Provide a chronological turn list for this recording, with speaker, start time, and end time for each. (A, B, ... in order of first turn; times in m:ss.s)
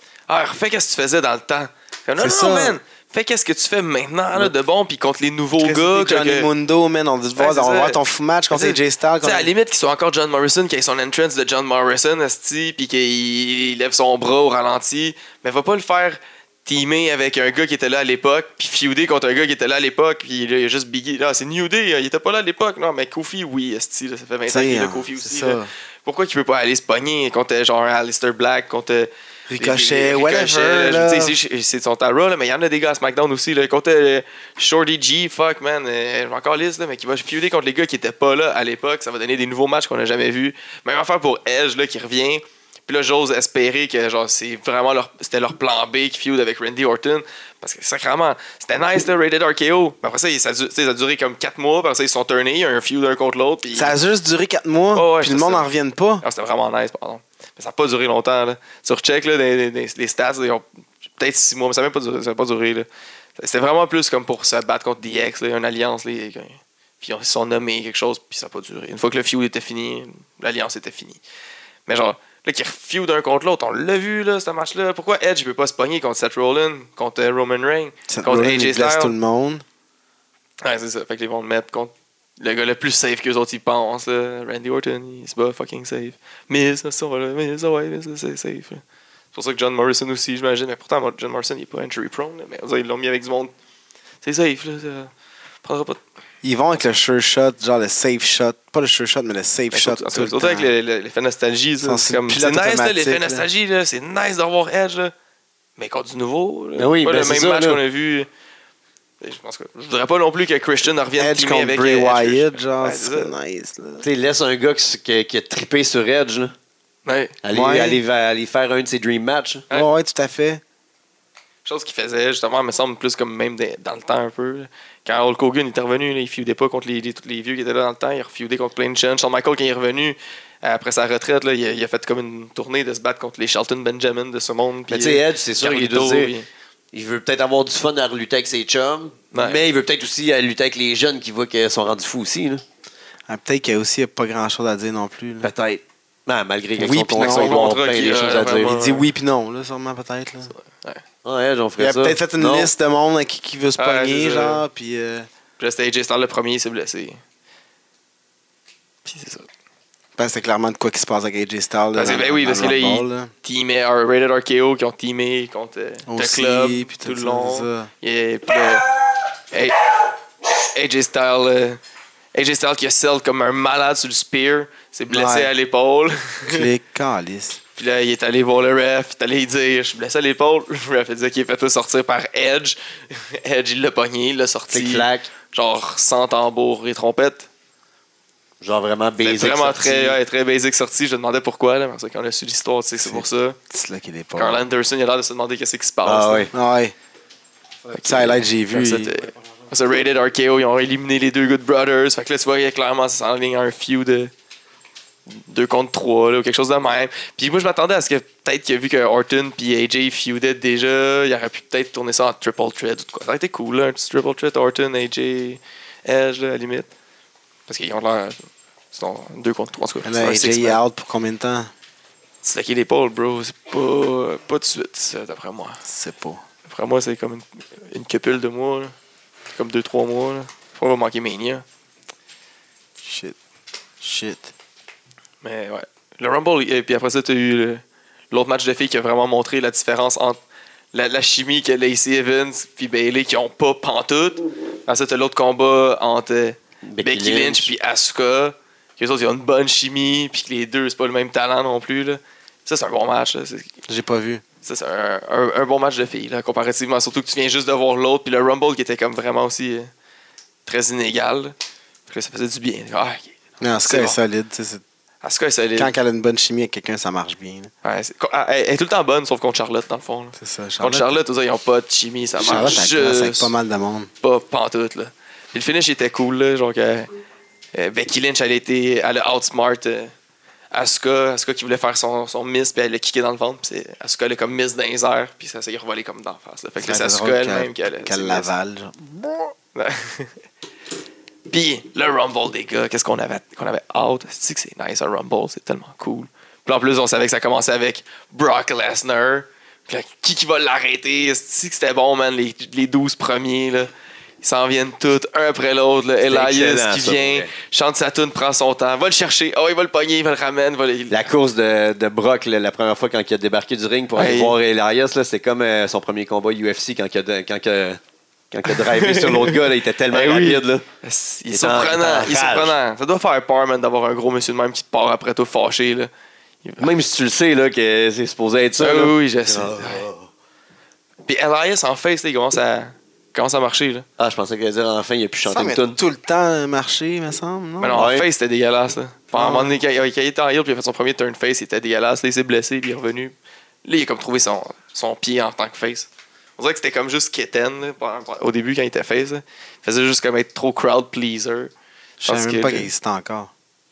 0:00.3-0:06.5 A
0:02.2-0:02.8 B
0:05.6-0:09.5 B
0:07.4-0:08.0 A
0:08.5-0:54.0 A
0:24.5-0:25.7 B
0:29.5-0:31.4 B
0:53.7-0:56.2 B
0:54.9-0:55.7 A
0:56.2-1:11.2 A
1:11.9-1:19.1 A
1:18.1-1:19.6 B
1:20.6-1:28.8 A
1:29.3-1:33.5 A
1:34.2-1:35.1 A
1:35.6-1:36.0 A
1:36.4-1:40.7 B
1:39.7-1:45.1 A
1:41.8-1:43.5 B
1:45.8-1:48.3 A
1:46.8-1:47.8 C
1:49.2-1:53.3 A
1:51.2-1:54.0 B
1:54.0-1:56.5 C
1:57.0-1:57.4 A
1:57.4-1:59.6 C
1:57.5-1:58.0 B
1:59.7-2:00.6 B
2:01.6-2:16.5 A
2:14.9-2:16.3 C
2:16.9-2:22.6 C
2:19.3-2:19.6 A
2:23.3-2:25.5 B
2:25.4-2:28.8 C
2:26.8-2:27.7 B
2:27.2-2:29.0 A
2:28.6-2:30.5 B
2:30.5-2:31.0 A
2:31.2-2:32.7 C
2:31.8-2:35.3 B
2:33.8-2:34.6 A
2:35.6-2:37.2 A
2:39.0-2:39.5 A
2:40.2-2:43.3 B
2:41.9-2:48.9 A
2:46.1-2:47.9 B
2:49.5-2:49.8 A
2:50.7-2:51.8 A
2:52.3-2:56.7 A
2:55.1-2:55.5 B
2:56.5-2:57.6 B
2:57.8-3:07.5 A
3:04.7-3:05.3 C
3:08.6-3:10.2 C
3:09.2-3:13.6 A
3:13.0-3:14.6 B
3:14.4-3:16.5 A
3:16.0-3:16.5 C
3:16.5-3:16.9 B
3:17.8-3:19.3 B
3:17.9-3:24.3 A
3:25.3-3:36.9 A
3:37.7-3:40.8 A
3:40.0-3:41.7 B
3:42.4-3:45.8 A
3:45.8-3:46.4 B
3:46.6-3:48.9 A
3:49.5-3:51.6 A
3:53.0-3:53.4 B
3:54.0-3:54.5 B
3:55.4-4:00.4 A
4:00.9-4:13.7 A
4:06.9-4:07.7 C
4:13.9-4:14.4 B
4:14.6-4:19.9 A
4:20.6-4:21.5 A
4:22.1-4:24.2 A
4:23.6-4:24.8 B
4:25.2-4:25.9 A
4:25.8-4:27.7 B
4:27.8-4:33.5 A
4:30.4-4:31.2 B
4:32.4-4:34.1 B
4:34.2-4:37.1 A
4:37.7-4:40.1 A
4:40.7-4:48.5 A
4:46.8-4:49.5 B
4:49.7-4:50.4 A
4:51.5-5:03.9 A
5:04.4-5:11.2 A
5:06.3-5:07.5 C
5:11.1-5:18.0 C
5:14.2-5:14.6 A
5:18.5-5:20.8 C
5:18.7-5:26.1 A
5:21.5-5:22.8 C
5:26.6-5:26.9 A
5:26.8-5:30.3 C
5:28.8-5:30.1 A
5:31.3-5:34.1 A
5:34.2-5:36.0 C
5:35.4-5:38.0 B
5:37.8-5:51.7 A
5:37.9-5:38.2 C
5:39.3-5:39.8 B
5:52.2-5:53.5 B
5:52.2-5:52.9 A